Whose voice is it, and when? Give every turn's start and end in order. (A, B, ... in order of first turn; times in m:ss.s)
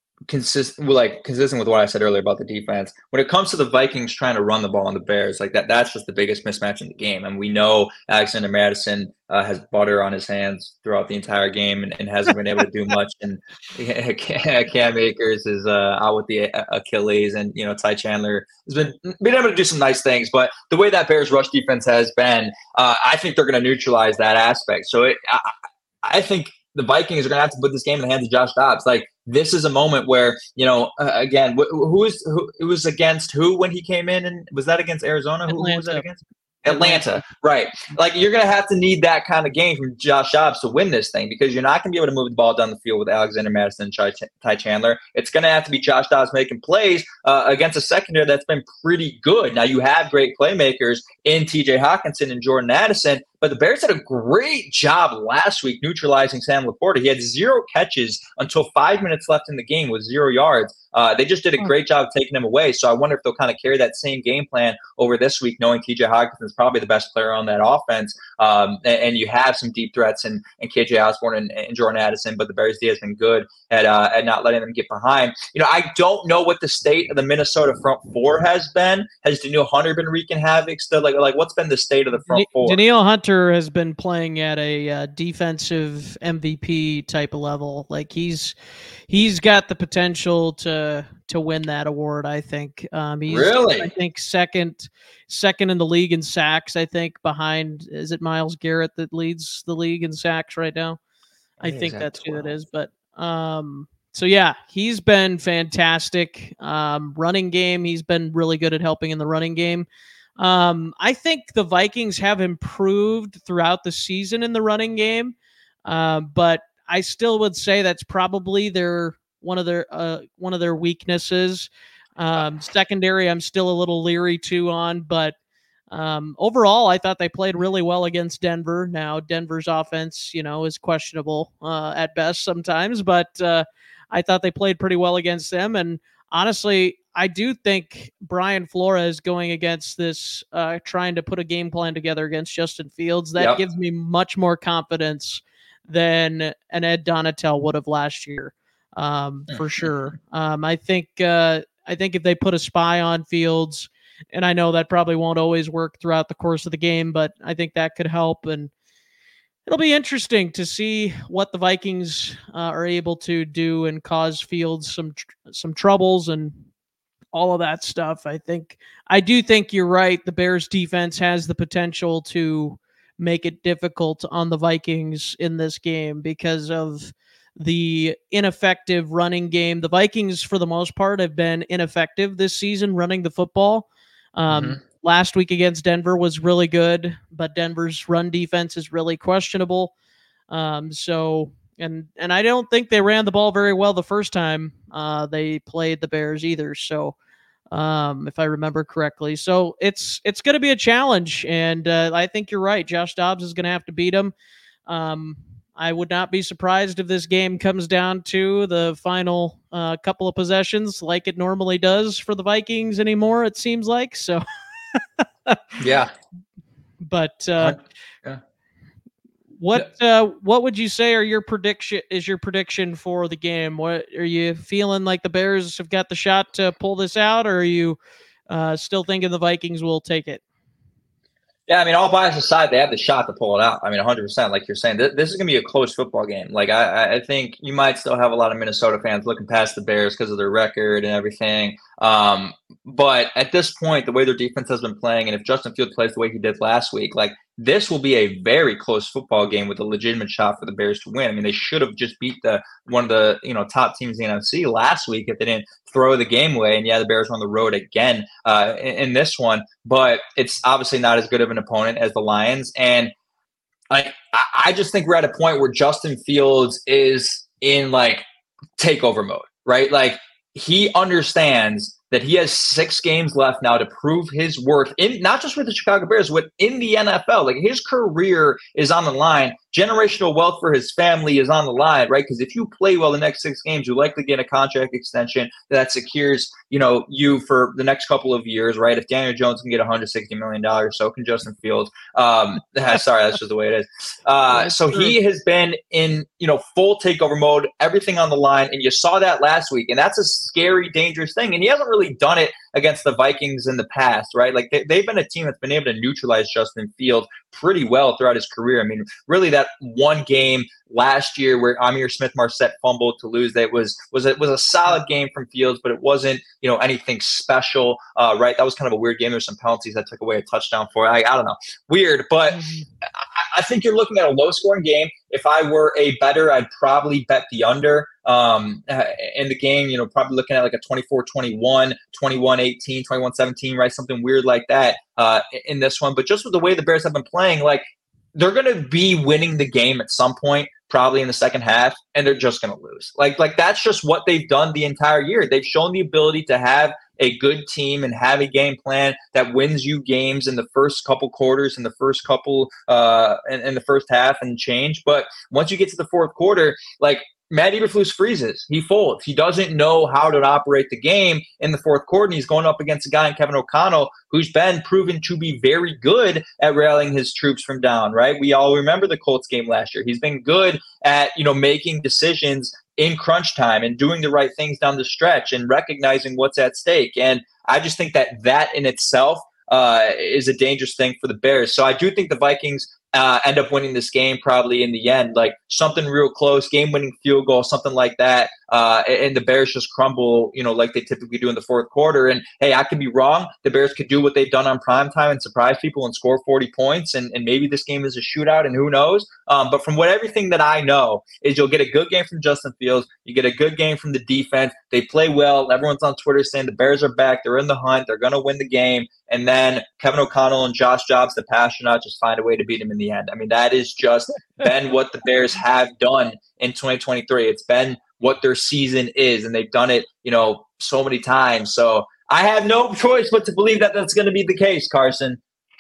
0:00.3-1:22.8 A
0:35.5-0:36.0 B
0:36.7-0:37.2 B
1:22.3-1:28.6 B
1:29.1-1:41.0 B
1:33.3-1:33.9 A
1:41.6-1:49.9 B
1:41.6-1:42.5 A
1:50.4-2:05.4 B
2:05.9-2:38.7 B
2:29.5-2:29.9 A
2:39.7-2:46.6 B
2:47.3-3:09.9 B
3:04.5-3:04.8 A
3:10.5-3:17.2 B
3:17.7-3:24.3 B
3:24.9-3:34.4 B
3:35.2-3:35.6 B
3:35.8-3:36.1 A
3:37.0-3:37.8 B
3:37.6-3:38.4 A
3:39.6-3:48.0 B
3:48.5-3:50.4 B
3:51.7-4:23.1 A
4:23.9-4:28.2 A
4:28.8-5:37.8 A
4:54.5-4:55.1 B
5:22.5-5:22.9 B
5:38.4-7:05.4 A